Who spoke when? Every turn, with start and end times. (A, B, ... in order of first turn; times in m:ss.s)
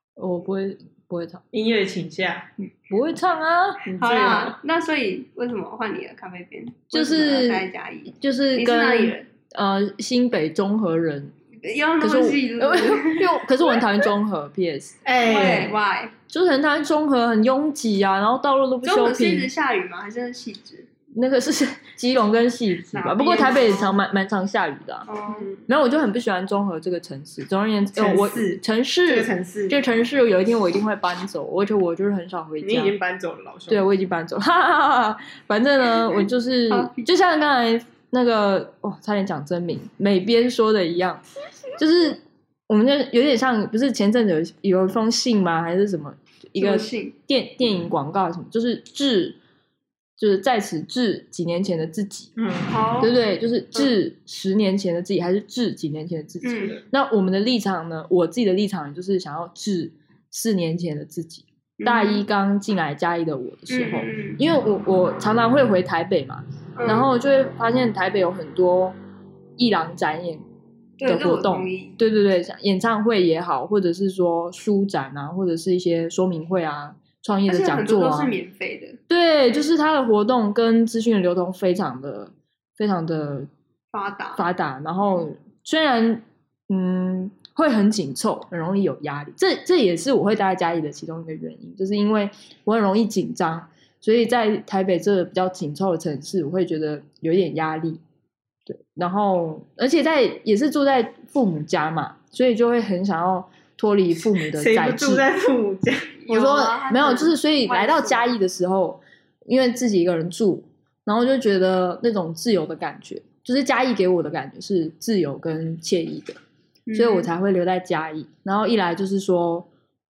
0:00.2-0:01.4 A
0:01.5-0:02.5 B
0:02.7-0:03.8 A
0:03.9-0:04.6 B
0:04.0-0:09.3 C
0:06.9-0:11.3 A
0:11.6-0:13.3 C
0:12.0-0:15.0 A
0:15.0-0:15.8 B
0:15.2-0:16.1 C
0:16.3-0:19.5 A
0:18.8-0:20.9 C
0:21.1-0:25.1 A
0:22.9-0:23.9 B
0:25.1-0:25.5 C
0:25.3-0:25.6 B
0:25.6-0:33.0 A
0:28.0-0:29.8 B
0:32.6-0:33.9 B
0:33.7-0:41.2 A
0:36.7-0:37.1 C
0:41.8-0:49.4 A
0:46.6-0:47.1 C
0:50.2-0:52.3 A
0:52.4-0:52.7 B
0:52.7-0:53.1 C
0:53.0-1:09.0 A
0:56.4-0:56.8 C
0:56.6-0:56.8 B
1:01.8-1:02.2 C
1:03.7-1:04.4 C
1:06.8-1:07.1 C
1:09.6-1:10.4 A
1:11.0-1:12.0 C
1:11.0-1:18.3 A
1:17.5-1:19.0 C
1:19.1-1:23.5 A
1:23.9-1:24.4 C
1:24.4-1:38.0 A
1:38.7-1:45.2 A
1:44.4-1:46.2 B
1:46.2-1:48.3 C
1:46.3-1:56.4 A
1:56.9-1:57.3 C
1:57.0-1:59.7 A